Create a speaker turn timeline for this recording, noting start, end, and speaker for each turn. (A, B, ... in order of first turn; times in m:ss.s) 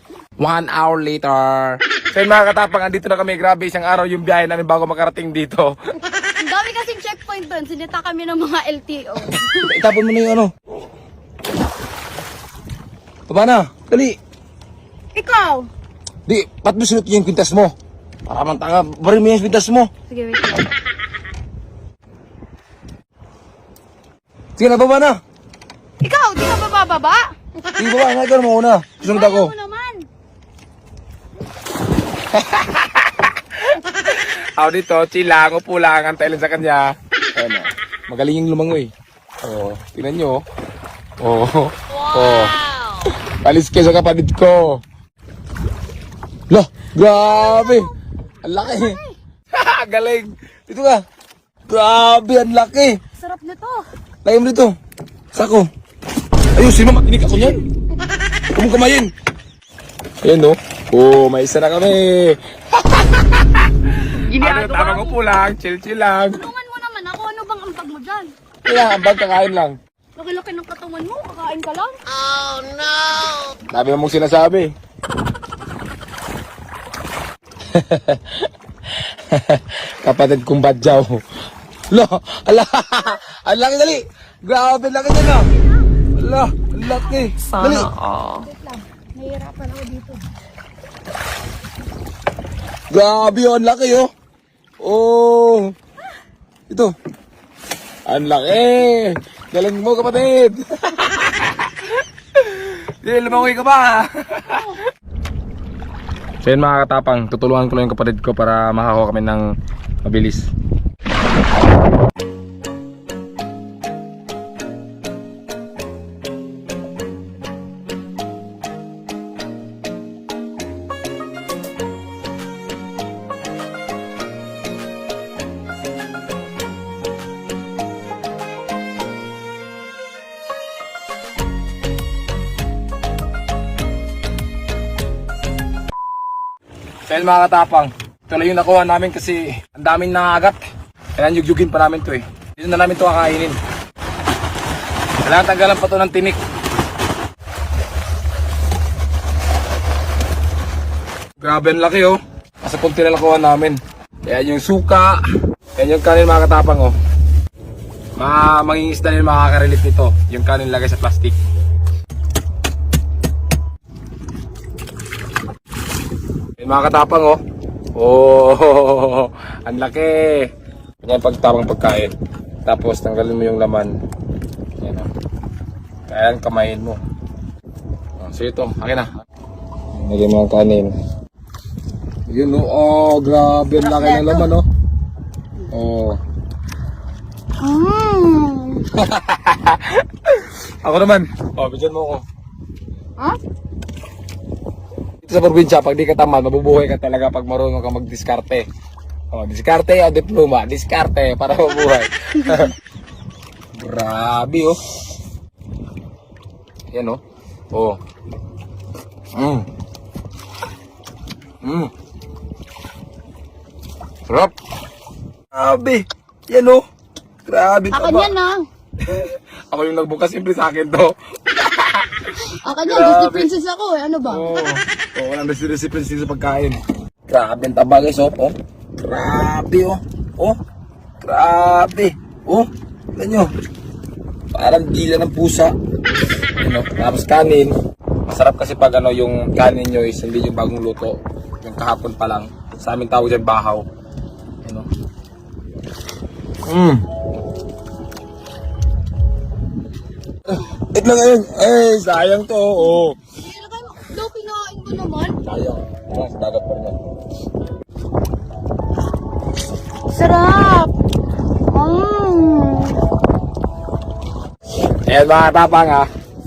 0:00.4-0:05.7 A
0:06.4-0:09.7 B
0:09.5-0:10.5 A
0:13.3-0:14.2 A
0:15.1-0:15.7 B
0:16.2-0:17.7 A
0:18.2-0:19.9 A
0:20.1-0:20.5 B
0:24.6-0:25.2 A
0:26.0-0:27.3 B
0:27.8-0:29.5 A
0:29.0-0:30.0 B
0:32.3-0:38.9 A
0:39.4-0:40.4 A
0:41.2-0:42.6 A
0:43.4-0:44.8 A
0:46.5-0:47.9 A
0:47.1-0:47.9 B
0:48.4-0:49.0 A
0:48.6-0:49.2 B
0:49.5-0:51.0 A
0:51.7-0:53.0 A
0:53.1-0:53.8 B
0:54.2-0:54.7 A
0:55.3-0:55.7 A
0:56.5-0:57.6 A
0:58.5-0:59.1 A
1:00.2-1:06.4 A
1:04.3-1:05.1 C
1:06.3-1:08.3 B
1:08.6-1:09.8 A
1:10.2-1:12.0 B
1:13.7-1:14.7 A
1:17.7-1:21.2 A
1:21.9-1:25.5 A
1:26.2-1:27.9 A
1:27.4-1:28.5 C
1:28.4-1:30.2 B
1:32.9-1:34.1 A
1:34.8-1:35.7 A
1:36.7-1:36.9 A
1:38.0-1:44.7 A
1:46.4-1:49.4 A
1:50.0-1:50.5 A
2:17.1-2:20.6 A
2:21.2-2:23.6 A
2:25.2-2:26.4 A
2:31.4-2:35.2 A
2:35.8-2:36.9 A
2:38.2-2:41.4 A
2:46.6-2:47.4 A
2:47.9-2:50.5 A
2:51.0-2:52.1 A
2:52.6-2:53.9 A
2:54.8-2:55.1 A
2:56.1-2:57.0 A
2:58.2-2:59.1 A
2:59.9-3:00.9 A
3:02.3-3:04.6 A
3:03.8-3:04.5 B
3:05.7-3:06.2 A
3:07.6-3:08.9 B
3:08.9-3:12.2 A
3:15.2-3:18.6 A
3:19.3-3:22.7 A
3:23.8-3:24.8 A
3:26.9-3:27.2 A
3:27.7-3:28.0 A
3:29.3-3:29.7 A
3:31.6-3:31.9 A
3:34.3-3:34.5 A
3:35.5-3:36.8 A
3:37.4-3:38.3 A
3:37.9-3:38.6 B
3:39.0-3:42.3 A
3:42.6-3:44.5 B
3:42.8-3:43.5 A
3:44.2-3:50.6 A
3:51.2-3:53.5 A
3:54.5-3:55.7 A
3:56.6-3:57.8 A
3:58.3-4:03.8 A
4:04.6-4:04.9 A
4:06.6-4:07.0 A
4:10.5-4:13.2 A
4:13.4-4:15.4 B
4:15.4-4:17.0 A
4:20.1-4:20.9 B
4:21.7-4:23.0 B
4:25.0-4:26.1 A